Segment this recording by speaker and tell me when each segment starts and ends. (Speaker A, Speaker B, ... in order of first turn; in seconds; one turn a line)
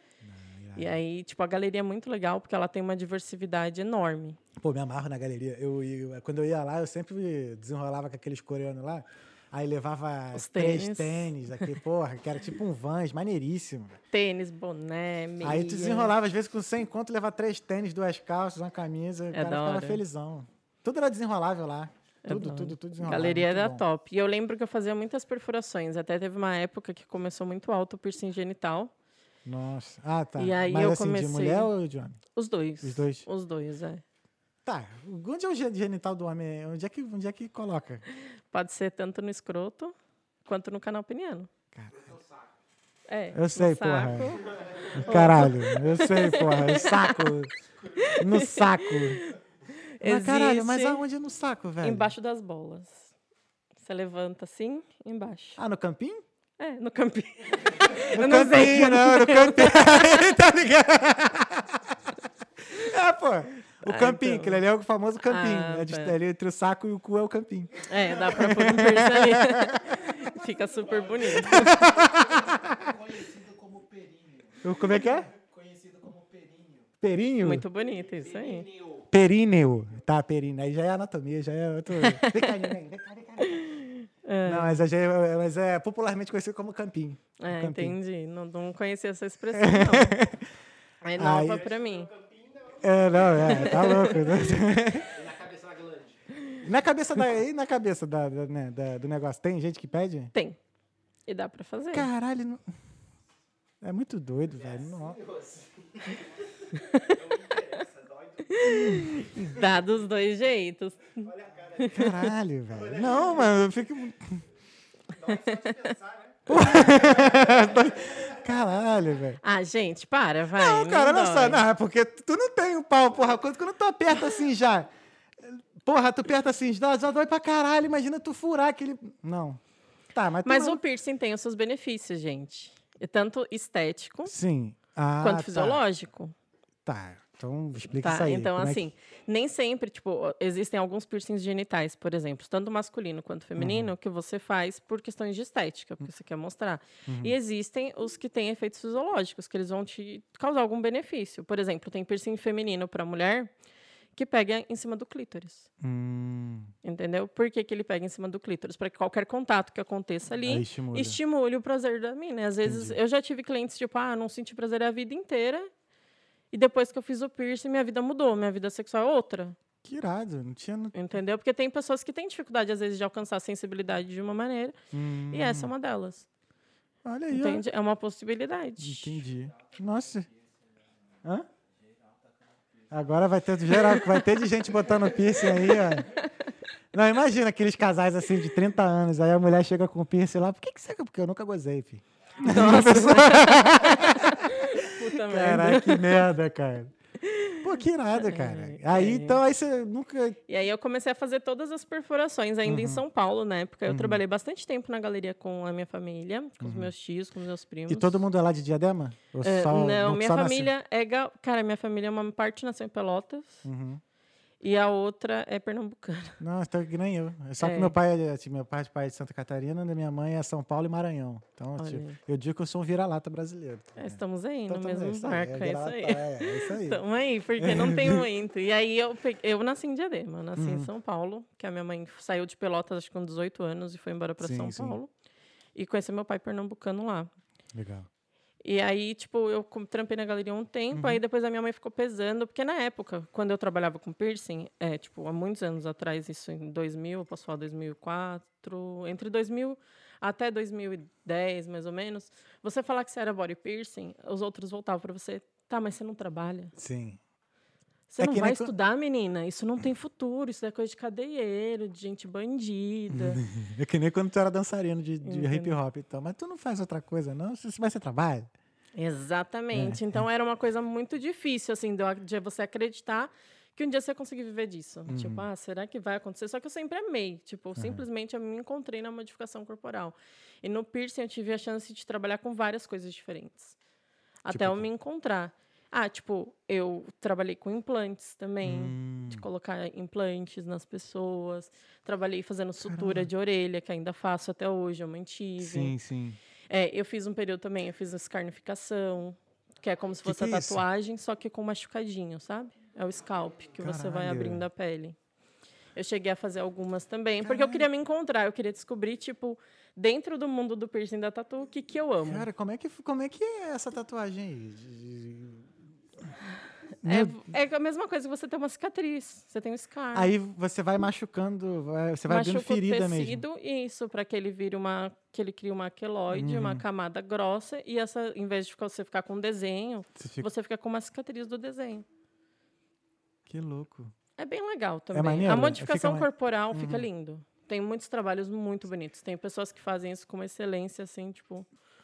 Speaker A: 0.2-1.0
Speaker B: 0.8-4.4
Speaker A: 4.6-14.0
Speaker B: 10.3-11.7
Speaker B: 14.1-16.1
Speaker A: 15.4-23.8
Speaker B: 19.3-20.0
Speaker B: 22.2-28.9
Speaker A: 29.4-32.2
Speaker B: 30.4-31.7
Speaker B: 32.3-34.0
Speaker A: 32.8-33.3
Speaker A: 34.6-38.0
Speaker B: 38.3-41.5
Speaker A: 41.7-42.2
Speaker C: 42.0-42.5
Speaker B: 43.1-47.4
Speaker A: 43.3-44.4
Speaker C: 44.6-44.9
Speaker A: 44.9-47.5
Speaker B: 47.9-51.0
Speaker A: 48.1-49.3
Speaker A: 50.0-52.1
Speaker B: 51.8-53.1
Speaker B: 53.8-55.6
Speaker A: 55.6-56.2
Speaker B: 56.6-60.4
Speaker A: 58.1-62.0
Speaker A: 62.6-70.1
Speaker B: 63.8-64.6
Speaker B: 65.2-66.2
Speaker B: 67.9-71.8
Speaker C: 68.2-68.6
Speaker C: 70.0-76.9
Speaker A: 71.3-72.9
Speaker A: 74.6-75.3
Speaker A: 77.0-77.6
Speaker B: 77.4-78.7
Speaker C: 78.0-79.1
Speaker A: 79.1-83.7
Speaker B: 81.9-82.8
Speaker B: 83.5-84.8
Speaker A: 84.4-88.0
Speaker B: 87.4-90.2
Speaker A: 89.5-90.5
Speaker B: 91.0-92.1
Speaker A: 91.2-91.6
Speaker C: 91.3-94.2
Speaker A: 92.8-95.1
Speaker B: 93.3-94.3
Speaker C: 95.0-96.6
Speaker A: 96.6-100.3
Speaker B: 100.3-100.6
Speaker B: 101.2-102.1
Speaker A: 101.9-102.7
Speaker A: 103.8-105.2
Speaker C: 104.6-109.8
Speaker B: 106.7-107.8
Speaker B: 108.5-112.2
Speaker A: 108.6-109.2
Speaker C: 111.2-113.6
Speaker A: 111.9-114.5
Speaker C: 115.1-118.3
Speaker B: 115.2-116.0
Speaker A: 116.5-119.4
Speaker B: 119.4-121.6
Speaker A: 120.5-129.6
Speaker A: 130.1-130.8
Speaker B: 130.4-134.3
Speaker A: 134.2-135.8
Speaker B: 135.2-136.3
Speaker A: 136.8-138.9
Speaker B: 137.9-153.5
Speaker A: 143.6-143.9
Speaker A: 147.1-147.3
Speaker B: 154.1-155.7
Speaker A: 155.8-156.7
Speaker B: 156.8-165.7
Speaker A: 160.4-161.2
Speaker A: 162.6-163.0
Speaker B: 166.5-169.6
Speaker A: 169.8-171.0
Speaker B: 170.9-174.8
Speaker A: 174.9-175.7
Speaker B: 175.3-176.3
Speaker A: 177.0-177.6
Speaker B: 177.3-179.2
Speaker A: 178.8-180.3
Speaker C: 179.5-180.9
Speaker C: 181.5-183.1
Speaker A: 182.9-186.1
Speaker B: 183.7-184.3
Speaker B: 185.4-186.5
Speaker A: 186.9-196.9
Speaker B: 192.4-196.2
Speaker B: 197.2-197.6
Speaker A: 197.6-200.4
Speaker B: 198.2-199.4
Speaker B: 200.5-208.2
Speaker A: 202.6-203.0
Speaker A: 203.9-204.2
Speaker A: 206.6-206.9
Speaker A: 207.9-210.7
Speaker B: 209.4-213.6
Speaker A: 213.6-214.0
Speaker B: 214.6-216.4
Speaker A: 216.4-227.0
Speaker B: 217.6-217.9
Speaker B: 221.8-222.2
Speaker B: 223.9-235.1
Speaker A: 227.6-228.2
Speaker A: 230.6-230.9
Speaker A: 234.4-235.0
Speaker B: 235.7-237.3
Speaker A: 237.7-238.1
Speaker B: 238.6-256.7
Speaker A: 240.9-241.2
Speaker A: 256.7-257.2
Speaker B: 258.1-263.4
Speaker A: 258.2-258.7
Speaker A: 263.1-268.5
Speaker B: 265.2-265.8
Speaker B: 268.9-283.8
Speaker A: 269.7-270.2
Speaker A: 275.1-275.4
Speaker A: 277.8-278.0
Speaker B: 284.4-295.9
Speaker A: 284.5-284.9
Speaker A: 288.6-289.4
Speaker A: 292.8-293.3
Speaker A: 295.6-296.4
Speaker B: 296.7-305.2
Speaker A: 300.2-300.8
Speaker A: 303.8-304.6
Speaker B: 305.9-312.5
Speaker A: 307.4-307.9
Speaker A: 312.2-315.7
Speaker A: 317.0-317.4
Speaker B: 317.0-320.3
Speaker A: 320.1-323.4
Speaker B: 322.3-332.1
Speaker A: 326.3-326.8
Speaker A: 330.1-330.5
Speaker A: 333.5-334.1
Speaker B: 334.4-341.7
Speaker A: 335.1-337.1